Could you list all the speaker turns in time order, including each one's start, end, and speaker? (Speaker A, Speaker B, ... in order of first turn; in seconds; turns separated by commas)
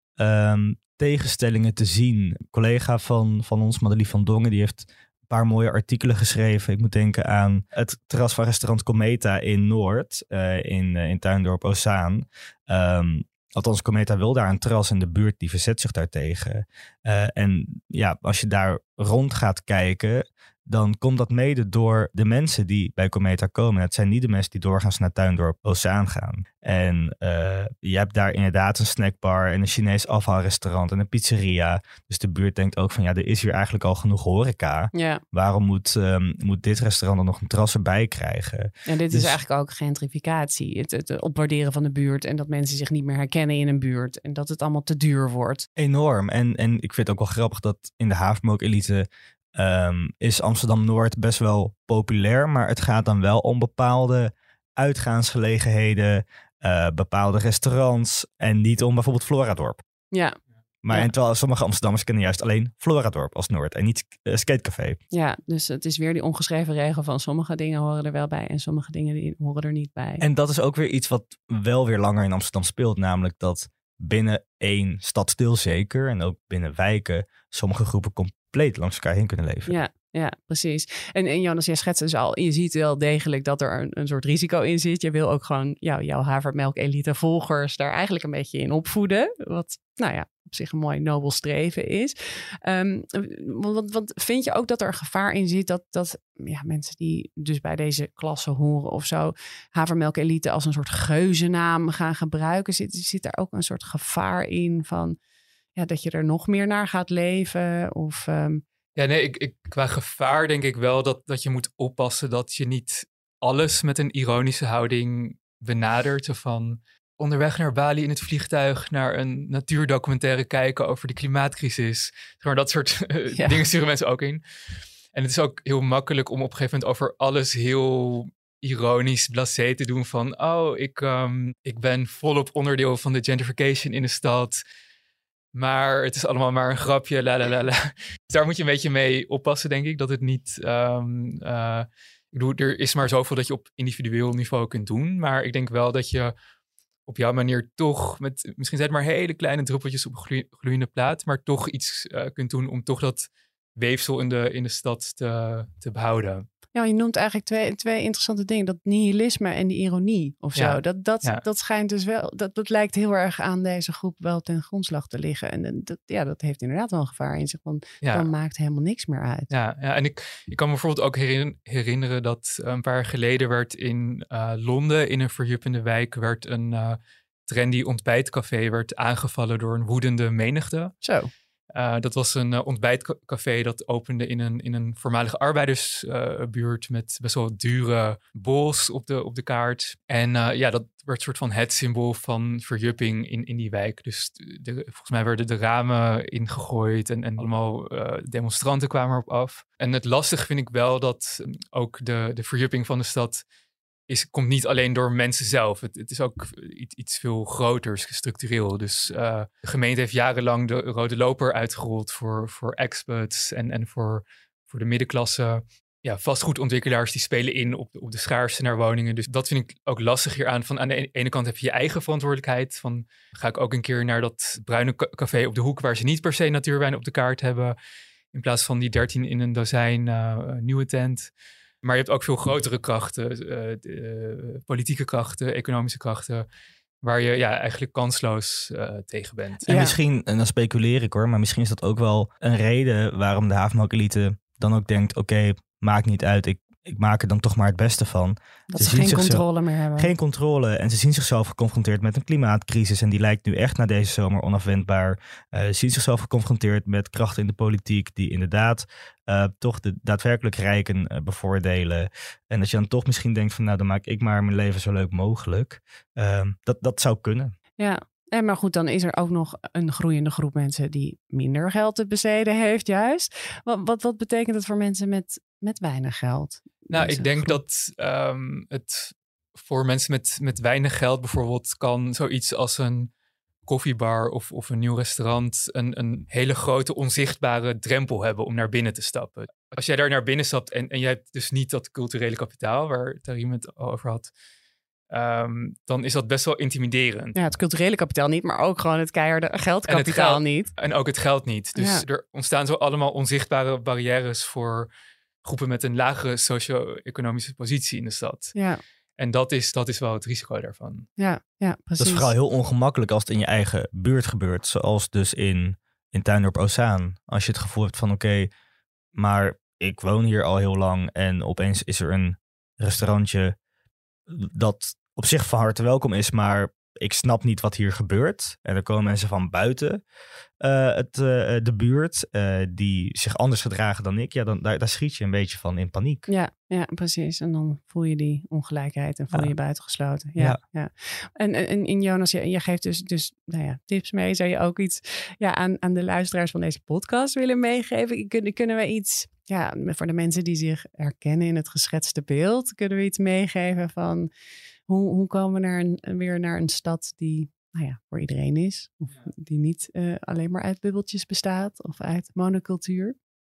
Speaker A: 0.2-39.4, Speaker B: 34.9-35.2, Speaker B: 38.9-45.7, Speaker A: 45.8-59.8, Speaker A: 60.8-65.0, Speaker B: 65.1-70.2, Speaker A: 70.2-79.7, Speaker B: 79.7-105.2, Speaker B: 105.8-108.6, Speaker C: 109.0-124.4, Speaker B: 123.3-123.7, Speaker C: 125.1-134.6, Speaker C: 135.5-146.3, Speaker C: 147.1-156.5, Speaker B: 156.8-169.5, Speaker C: 160.6-161.4, Speaker C: 168.0-168.3, Speaker C: 169.5-180.9, Speaker B: 181.0-181.3, Speaker C: 181.8-203.4, Speaker C: 204.1-227.8, Speaker C: 228.3-231.3, Speaker C: 231.8-236.5, Speaker C: 237.0-239.8, Speaker A: 239.7-249.4, Speaker B: 239.7-240.0, Speaker B: 248.7-250.1, Speaker A: 250.0-267.5, Speaker B: 267.8-277.6, Speaker C: 276.9-283.1, Speaker C: 283.7-294.3, Speaker C: 295.1-297.4, Speaker B: 297.4-300.7, Speaker C: 299.9-304.9, Speaker B: 301.8-302.1, Speaker C: 305.4-308.6, Speaker B: 308.6-308.8, Speaker C: 309.2-311.1, Speaker B: 311.2-312.3, Speaker A: 312.0-318.5, Speaker A: 319.1-323.5, Speaker A: 324.3-330.0, Speaker A: 330.6-336.3, Speaker B: 336.3-354.3, Speaker B: 354.9-363.1